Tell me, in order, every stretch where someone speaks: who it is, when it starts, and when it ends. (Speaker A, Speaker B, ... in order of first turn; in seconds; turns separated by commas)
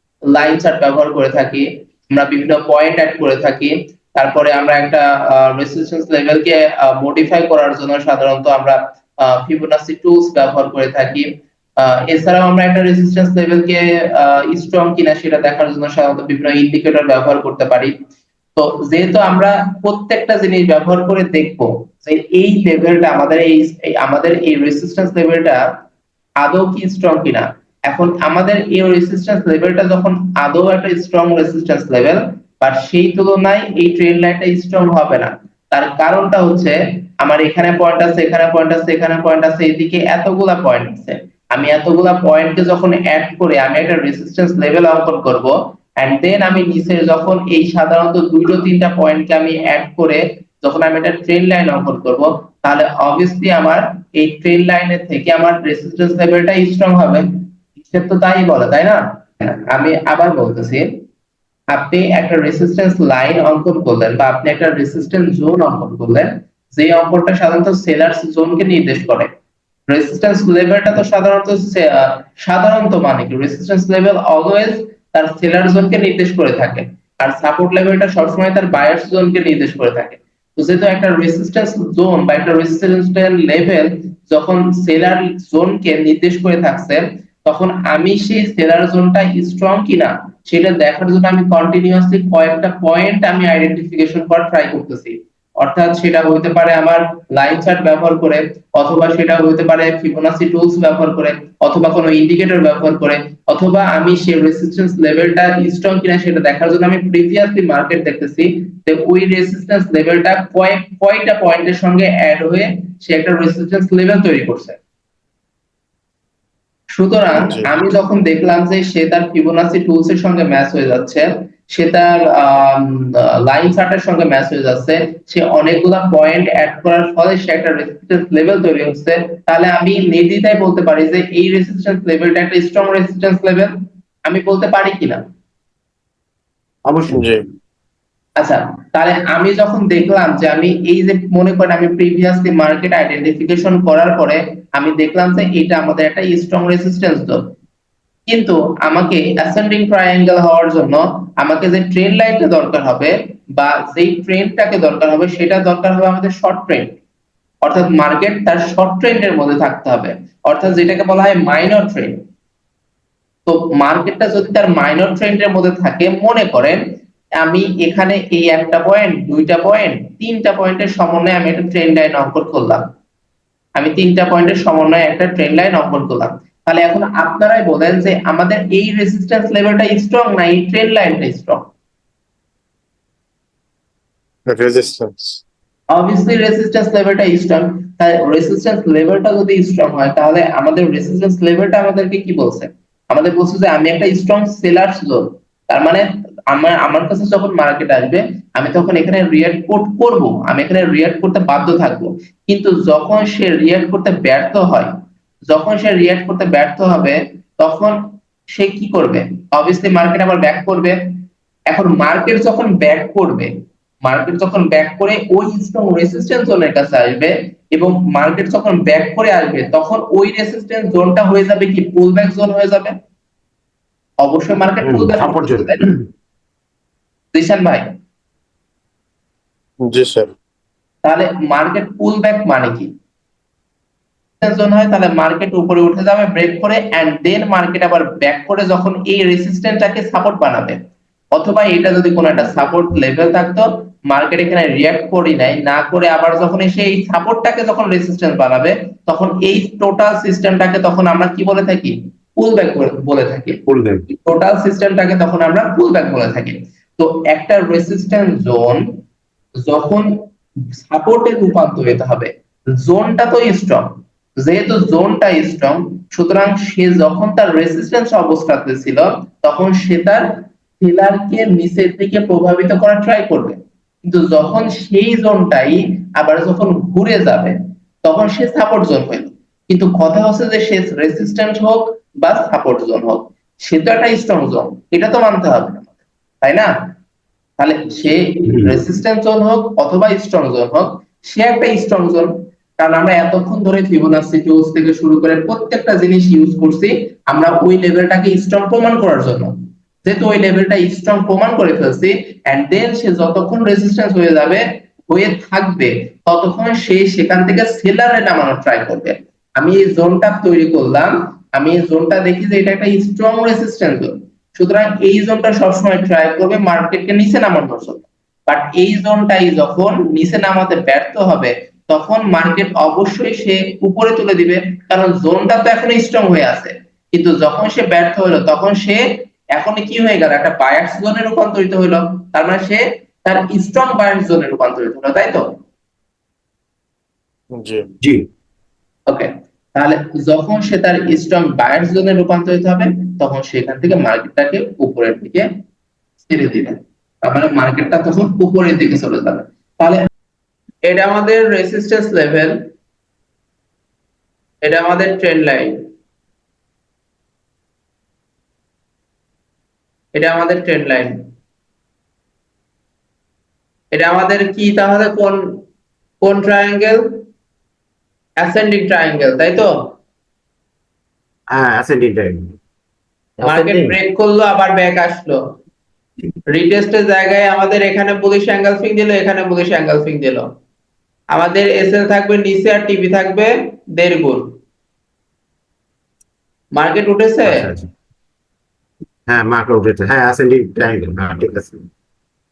Speaker A: 0.3-11.3, Speaker A: 11.8-17.9, Speaker A: 18.6-25.6, Speaker A: 26.4-57.2, Speaker A: 57.8-60.9, Speaker A: 61.7-69.3, Speaker A: 69.9-114.8, Speaker A: 117.0-133.7, Speaker B: 117.3-117.7, Speaker A: 134.2-135.2, Speaker C: 136.8-137.3, Speaker B: 137.1-137.4, Speaker A: 138.4-147.5, Speaker A: 148.3-156.9, Speaker A: 157.6-162.2, Speaker A: 163.4-166.8, Speaker A: 167.4-172.8, Speaker A: 173.8-181.7, Speaker B: 184.4-185.4, Speaker A: 185.9-204.9, Speaker A: 205.5-208.0, Speaker A: 208.6-211.0, Speaker A: 211.7-213.5, Speaker A: 214.0-222.9, Speaker A: 224.2-225.9, Speaker C: 224.8-225.8, Speaker A: 227.3-227.8, Speaker B: 229.8-230.3, Speaker A: 231.0-232.9, Speaker A: 234.4-240.8, Speaker A: 241.3-258.8, Speaker C: 253.7-254.0, Speaker A: 259.6-260.1, Speaker A: 260.9-263.9, Speaker A: 264.4-270.3, Speaker A: 270.8-285.9, Speaker A: 286.4-286.7, Speaker A: 287.6-335.5, Speaker C: 288.5-288.8, Speaker B: 337.5-337.9, Speaker A: 339.1-345.5, Speaker A: 346.2-350.0, Speaker A: 350.8-352.6, Speaker A: 354.6-355.8, Speaker A: 360.1-361.2, Speaker A: 363.9-365.6, Speaker A: 366.2-367.1, Speaker A: 368.4-369.7, Speaker C: 371.5-372.6, Speaker C: 373.4-374.0, Speaker A: 373.4-375.4, Speaker A: 376.5-380.4, Speaker A: 381.3-384.5, Speaker A: 386.7-387.7, Speaker C: 387.4-387.9, Speaker C: 389.3-391.9